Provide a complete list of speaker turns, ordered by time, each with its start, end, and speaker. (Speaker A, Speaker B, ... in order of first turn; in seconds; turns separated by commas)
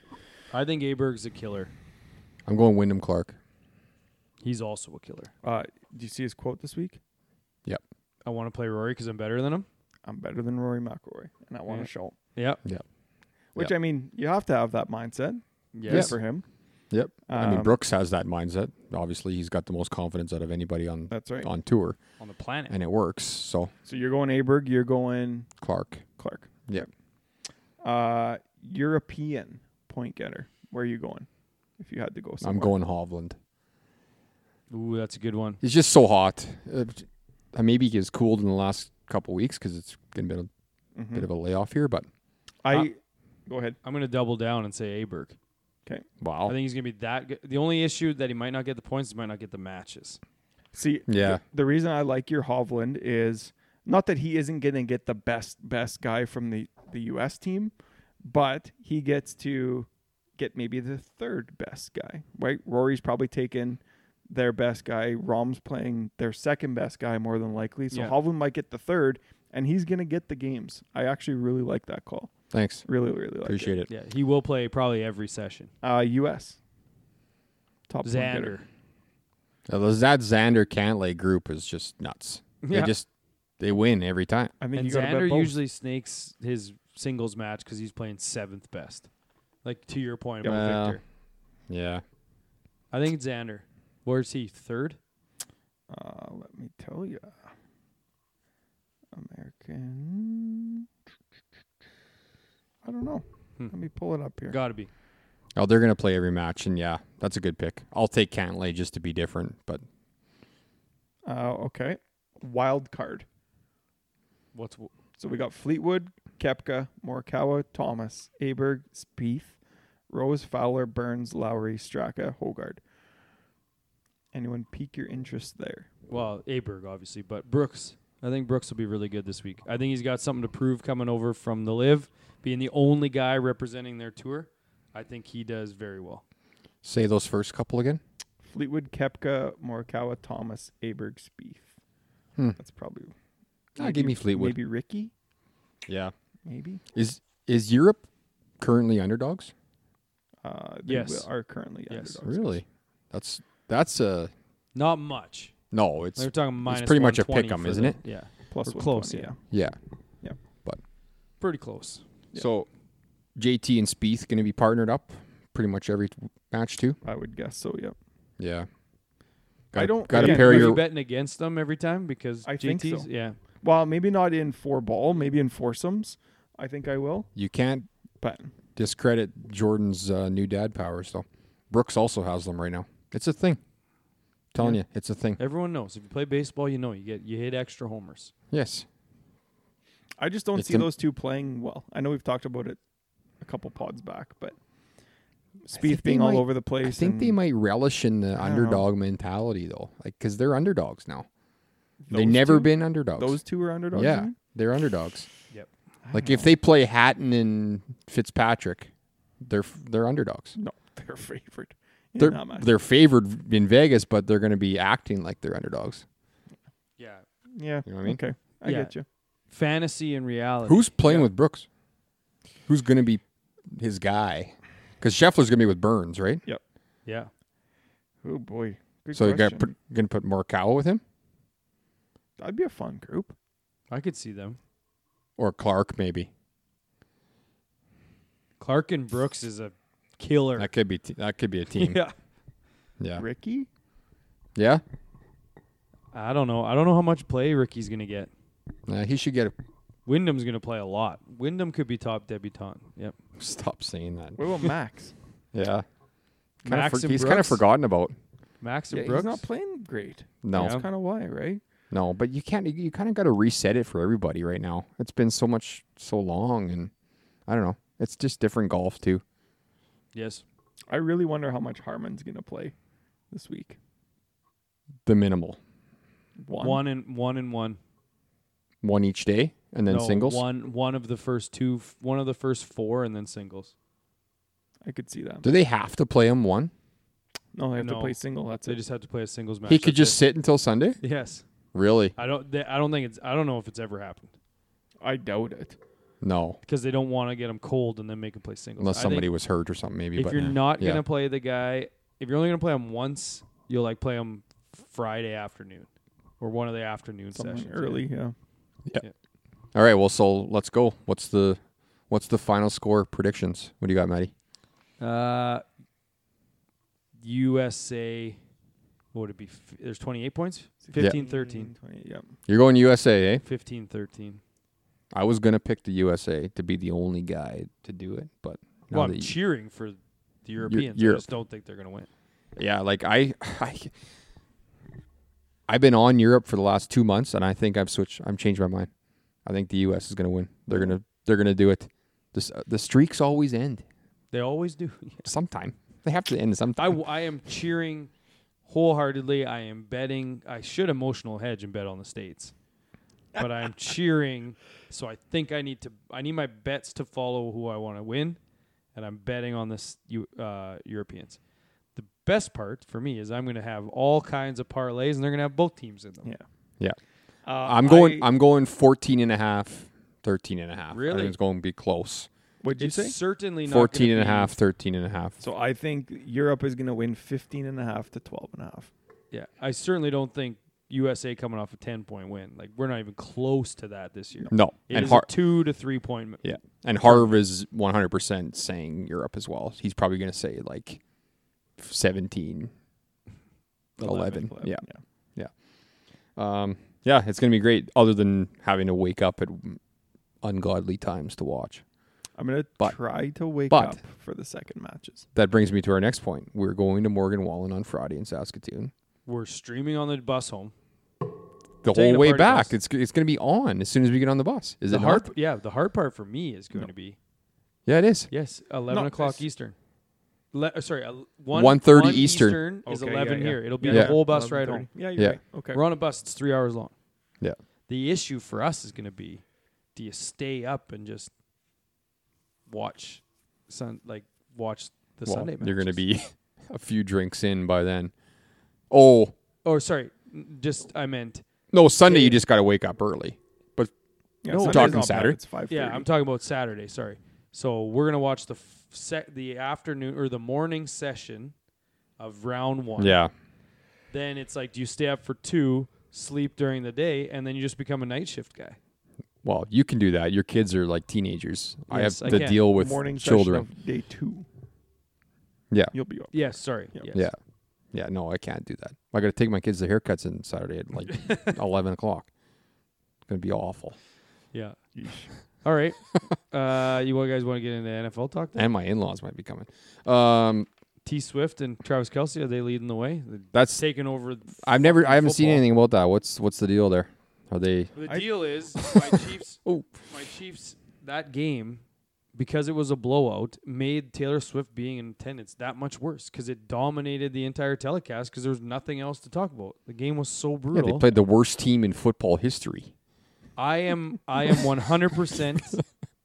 Speaker A: 0.5-1.7, Speaker B: 2.5-3.4, Speaker A: 4.4-5.3, Speaker C: 5.4-7.0, Speaker A: 8.2-9.7, Speaker C: 10.0-12.1, Speaker A: 11.7-12.6, Speaker C: 13.5-16.4, Speaker A: 15.7-16.1, Speaker B: 15.9-16.2, Speaker B: 16.9-22.0, Speaker C: 17.3-17.7, Speaker C: 21.1-21.5, Speaker A: 22.2-22.7, Speaker B: 22.7-23.7, Speaker C: 23.9-25.5, Speaker B: 25.6-26.0, Speaker C: 26.2-26.9, Speaker C: 27.8-31.3, Speaker C: 31.8-32.7, Speaker B: 32.4-33.4, Speaker A: 34.7-35.6, Speaker B: 35.6-40.5, Speaker C: 41.0-41.3, Speaker B: 41.1-42.1, Speaker C: 42.6-43.8, Speaker A: 43.8-45.4, Speaker B: 46.2-46.5, Speaker A: 46.5-50.2, Speaker C: 50.7-72.3, Speaker B: 51.1-51.4, Speaker A: 67.9-68.2, Speaker B: 72.5-72.8, Speaker C: 72.8-73.8, Speaker B: 73.4-73.9, Speaker A: 73.9-75.7, Speaker C: 75.8-76.6, Speaker C: 77.9-78.6, Speaker A: 78.0-78.7, Speaker B: 79.7-83.1, Speaker A: 82.6-82.9, Speaker B: 83.6-84.5, Speaker C: 84.6-85.6, Speaker A: 84.7-89.1, Speaker A: 89.6-91.0, Speaker B: 90.4-91.0, Speaker B: 91.7-92.0, Speaker A: 92.9-95.0, Speaker C: 95.9-97.5, Speaker C: 99.1-100.9, Speaker C: 102.8-104.6, Speaker A: 104.5-104.9, Speaker B: 105.5-109.8, Speaker C: 111.2-113.2, Speaker A: 114.5-114.9, Speaker C: 115.2-119.5, Speaker C: 120.1-122.8, Speaker C: 124.3-125.9, Speaker A: 126.1-136.2, Speaker B: 136.8-138.0, Speaker C: 138.4-141.7, Speaker C: 142.6-143.1, Speaker B: 143.8-144.6, Speaker C: 143.8-145.1, Speaker B: 145.8-146.1, Speaker C: 146.4-146.8, Speaker B: 146.9-148.0, Speaker B: 148.6-149.5, Speaker C: 150.4-152.6, Speaker A: 150.8-151.3, Speaker A: 151.9-152.1, Speaker B: 152.2-154.3, Speaker A: 154.7-155.5, Speaker B: 155.7-158.0, Speaker A: 156.2-159.3, Speaker C: 158.5-159.5, Speaker B: 159.5-159.8, Speaker A: 161.4-162.0, Speaker B: 162.3-162.7, Speaker B: 163.3-167.0, Speaker C: 167.0-167.9, Speaker B: 168.4-168.7, Speaker C: 169.7-170.8, Speaker B: 169.7-170.8, Speaker A: 170.1-173.4, Speaker C: 172.4-173.1, Speaker C: 173.6-177.3, Speaker B: 177.3-177.9, Speaker C: 178.2-178.5, Speaker B: 178.8-183.6, Speaker B: 184.5-185.4, Speaker A: 185.4-188.3, Speaker B: 188.5-188.8, Speaker C: 190.2-192.8, Speaker B: 190.5-190.9, Speaker C: 193.4-194.6, Speaker C: 195.6-197.4, Speaker B: 195.7-201.3, Speaker C: 198.3-198.8, Speaker C: 202.0-204.3, Speaker B: 202.1-203.4, Speaker B: 203.9-205.3, Speaker C: 206.0-206.5, Speaker B: 206.1-210.6, Speaker C: 210.6-212.7, Speaker B: 212.2-216.0, Speaker A: 217.0-217.2, Speaker C: 217.6-219.0, Speaker B: 217.8-218.2, Speaker A: 218.6-218.9, Speaker A: 219.5-221.3, Speaker B: 220.7-221.7, Speaker B: 222.7-226.4, Speaker C: 228.2-229.7, Speaker B: 229.1-231.0, Speaker C: 232.4-233.3, Speaker A: 233.9-234.6, Speaker B: 235.4-236.3, Speaker A: 238.6-240.7, Speaker B: 240.6-242.0, Speaker A: 241.7-242.1, Speaker B: 243.0-243.2, Speaker C: 243.2-243.7, Speaker B: 244.6-244.8, Speaker A: 246.1-248.3, Speaker B: 248.9-249.5, Speaker A: 250.1-253.2, Speaker B: 253.4-254.7, Speaker C: 254.4-255.1, Speaker B: 255.5-255.8, Speaker A: 256.6-257.6, Speaker B: 256.6-258.1, Speaker A: 258.6-259.4, Speaker C: 258.9-261.6, Speaker B: 260.4-260.8, Speaker A: 260.5-260.8, Speaker B: 261.9-266.9, Speaker B: 267.5-269.2, Speaker A: 270.1-270.4, Speaker C: 270.9-272.7, Speaker C: 273.3-273.8, Speaker B: 275.0-275.6, Speaker C: 276.4-276.8, Speaker A: 276.6-277.8, Speaker B: 278.8-280.4, Speaker A: 279.9-283.7, Speaker C: 284.8-285.4, Speaker B: 285.4-286.7, Speaker C: 287.5-288.8, Speaker A: 287.8-290.2, Speaker B: 289.7-291.0, Speaker A: 291.0-291.4, Speaker B: 291.7-292.1, Speaker A: 292.2-294.3, Speaker C: 295.0-295.8, Speaker B: 296.2-296.6, Speaker A: 296.6-299.3, Speaker B: 298.8-301.0, Speaker A: 300.1-305.9, Speaker A: 306.4-308.0, Speaker C: 307.3-308.3, Speaker B: 309.7-314.3, Speaker A: 315.0-315.6, Speaker A: 317.2-318.4, Speaker A: 319.1-321.7, Speaker C: 320.8-322.3, Speaker B: 322.5-323.4, Speaker A: 323.4-324.4, Speaker B: 325.1-329.3, Speaker A: 328.9-332.1, Speaker B: 330.6-331.2, Speaker B: 332.6-333.9, Speaker B: 335.7-338.9, Speaker B: 339.4-343.8, Speaker A: 344.3-345.3, Speaker B: 345.2-347.0, Speaker A: 346.8-348.1, Speaker A: 348.7-352.5, Speaker A: 353.4-358.4, Speaker A: 358.9-361.4, Speaker A: 361.9-366.3, Speaker C: 367.4-368.3, Speaker B: 367.6-372.3, Speaker A: 370.9-371.3, Speaker C: 372.6-373.1, Speaker A: 372.8-374.5, Speaker B: 373.6-375.4, Speaker C: 375.4-378.9, Speaker A: 379.3-386.4, Speaker B: 384.5-385.3, Speaker B: 386.4-391.0, Speaker A: 387.0-387.3, Speaker B: 391.8-392.7, Speaker A: 394.0-394.5, Speaker B: 394.0-394.8, Speaker C: 394.4-395.0, Speaker B: 396.4-399.8, Speaker B: 400.4-401.8, Speaker C: 402.4-405.2, Speaker B: 403.7-404.0, Speaker B: 405.3-408.9, Speaker A: 409.2-410.7, Speaker B: 411.8-415.3, Speaker A: 411.9-412.7, Speaker A: 414.9-417.2, Speaker B: 417.9-418.3, Speaker A: 418.3-419.7, Speaker C: 418.9-419.4, Speaker A: 420.5-424.9, Speaker B: 421.5-422.6, Speaker C: 422.9-425.8, Speaker B: 423.9-424.2, Speaker A: 425.7-426.9, Speaker A: 427.9-429.4, Speaker A: 429.9-431.3, Speaker A: 432.7-436.0, Speaker B: 435.2-438.1, Speaker B: 438.9-439.3, Speaker A: 439.6-441.4, Speaker B: 441.7-443.9, Speaker A: 442.0-442.4, Speaker C: 444.4-446.1, Speaker A: 444.4-445.1, Speaker B: 444.6-445.4, Speaker A: 445.7-451.5, Speaker A: 452.2-453.2, Speaker B: 453.0-453.3, Speaker A: 454.1-458.8, Speaker B: 459.4-463.7, Speaker A: 461.9-462.6, Speaker C: 462.2-464.4, Speaker C: 465.9-466.3, Speaker A: 466.3-467.3, Speaker B: 467.1-467.4, Speaker B: 467.9-472.3, Speaker B: 473.3-474.0, Speaker A: 474.5-474.8, Speaker C: 474.9-475.3, Speaker A: 475.6-478.6, Speaker B: 478.5-480.7, Speaker A: 481.0-485.6, Speaker B: 483.5-483.8, Speaker B: 484.6-487.9, Speaker A: 487.9-491.8, Speaker B: 488.8-489.9, Speaker A: 492.3-501.1, Speaker B: 500.7-502.9, Speaker A: 503.6-505.8